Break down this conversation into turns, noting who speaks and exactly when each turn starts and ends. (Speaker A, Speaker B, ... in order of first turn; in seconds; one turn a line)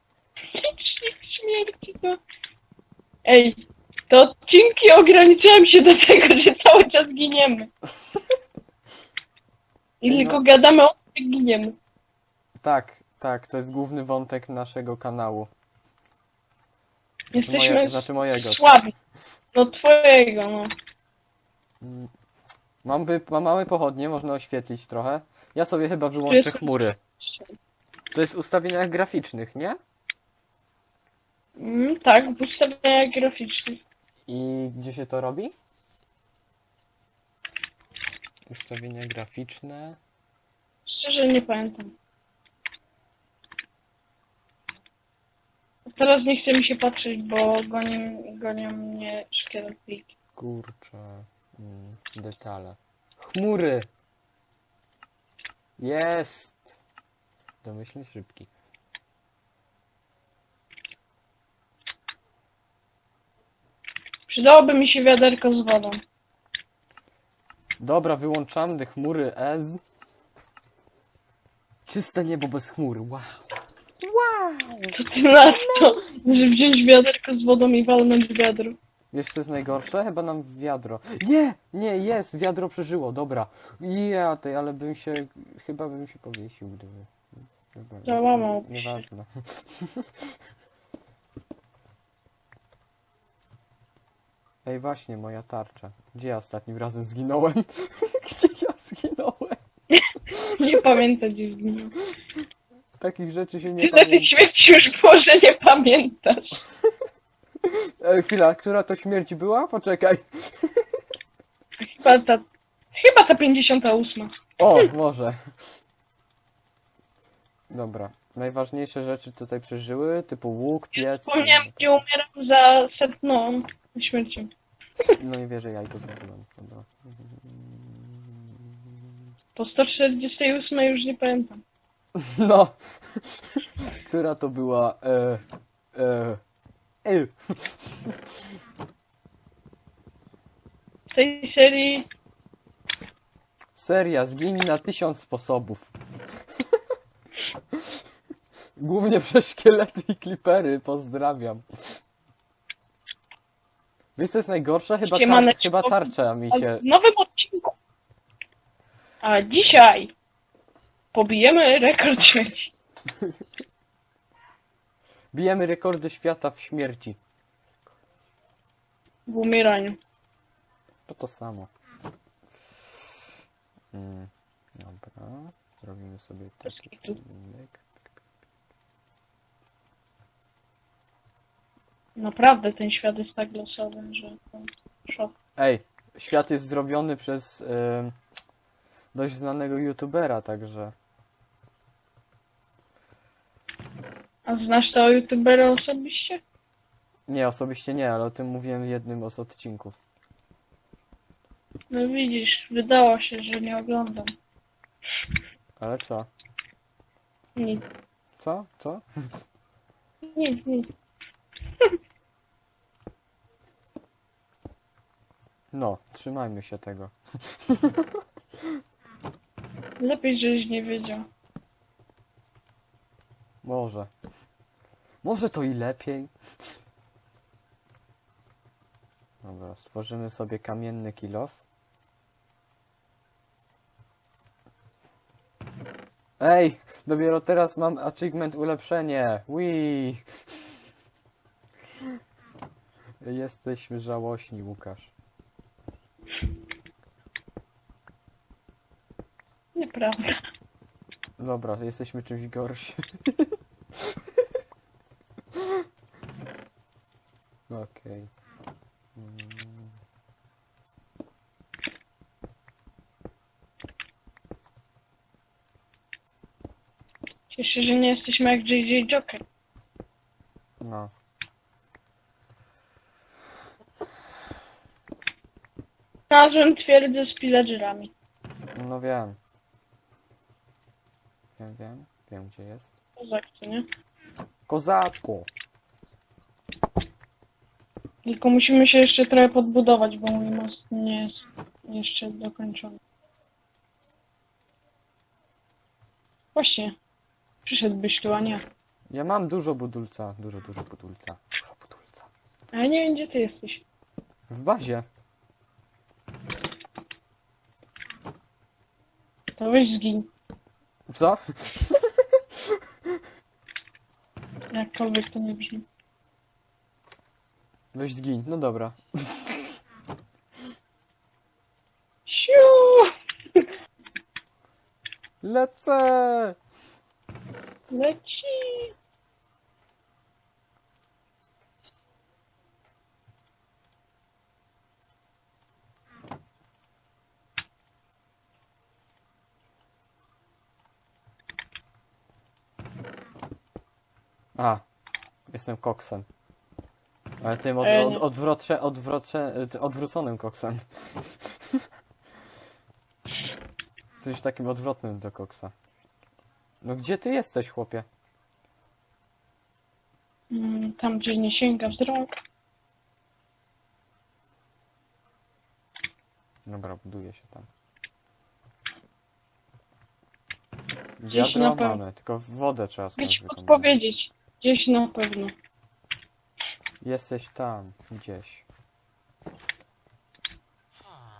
Speaker A: 0.5-2.2
Speaker A: 3.2-3.5
Speaker A: 4.1-7.7
Speaker A: 10.0-11.8
Speaker B: 10.1-10.4
Speaker B: 12.6-15.5
Speaker B: 17.3-18.8
Speaker A: 17.3-18.9
Speaker A: 19.5-20.7
Speaker B: 21.8-22.1
Speaker B: 22.8-27.0
Speaker A: 26.3-27.5
Speaker B: 28.1-29.8
Speaker A: 31.6-33.8
Speaker B: 34.3-35.5
Speaker B: 38.5-40.0
Speaker A: 40.9-41.9
Speaker A: 46.0-50.1
Speaker B: 50.4-53.9
Speaker B: 55.8-56.8
Speaker B: 57.6-58.5
Speaker A: 64.3-66.0
Speaker B: 67.8-69.8
Speaker B: 71.9-73.5
Speaker B: 74.0-76.4
Speaker A: 74.9-78.8
Speaker B: 79.1-90.1
Speaker A: 88.0-89.0
Speaker B: 94.6-99.6
Speaker A: 99.9-102.0
Speaker B: 100.3-100.8
Speaker B: 103.0-104.4
Speaker A: 103.8-106.6
Speaker B: 107.6-110.8
Speaker A: 111.8-114.3
Speaker B: 114.6-115.4
Speaker B: 117.7-121.9
Speaker A: 121.0-124.5
Speaker B: 125.2-128.9
Speaker A: 129.6-131.6
Speaker B: 132.2-135.4
Speaker B: 135.9-136.4
Speaker B: 137.0-138.2
Speaker A: 141.1-142.1
Speaker B: 143.8-145.9
Speaker B: 148.8-152.0
Speaker B: 154.2-156.8
Speaker A: 155.0-157.7
Speaker A: 159.2-160.1
Speaker A: 161.1-162.7
Speaker B: 165.3-167.2
Speaker A: 169.3-170.0
Speaker B: 171.1-171.7
Speaker B: 173.9-177.8
Speaker A: 176.7-177.2
Speaker A: 182.2-185.3
Speaker B: 185.6-188.1
Speaker B: 189.1-190.9
Speaker A: 194.4-196.4
Speaker B: 197.3-200.0
Speaker A: 201.9-204.3
Speaker B: 205.8-206.3
Speaker A: 207.6-207.8
Speaker B: 208.4-209.0
Speaker A: 210.3-210.9
Speaker B: 215.7-218.1
Speaker A: 220.0-221.3
Speaker B: 223.6-224.1
Speaker B: 225.2-226.3
Speaker B: 229.4-231.6
Speaker B: 236.4-240.2
Speaker B: 243.2-245.1
Speaker A: 249.7-250.4
Speaker B: 251.4-254.0
Speaker B: 257.7-258.3
Speaker B: 259.1-259.9
Speaker A: 267.5-269.4
Speaker B: 270.8-271.1
Speaker A: 276.3-278.1
Speaker B: 278.7-279.4
Speaker B: 281.6-283.0
Speaker A: 283.2-283.9
Speaker B: 284.7-285.5
Speaker A: 288.2-293.0
Speaker A: 296.5-296.9
Speaker A: 297.6-298.6
Speaker B: 299.1-302.3
Speaker A: 302.7-303.8
Speaker B: 304.5-305.1
Speaker A: 309.6-310.3
Speaker B: 311.1-312.8
Speaker A: 314.7-315.8
Speaker B: 317.9-319.7
Speaker A: 322.3-323.6
Speaker B: 325.4-326.6
Speaker A: 327.9-328.9
Speaker B: 344.6-344.8
Speaker B: 345.5-346.2
Speaker B: 347.4-351.8
Speaker A: 347.8-348.2
Speaker B: 354.2-355.7
Speaker B: 356.8-358.1
Speaker A: 360.5-362.4
Speaker B: 366.6-367.7
Speaker B: 371.2-373.9
Speaker A: 371.3-372.0
Speaker A: 373.2-375.5
Speaker B: 377.0-378.6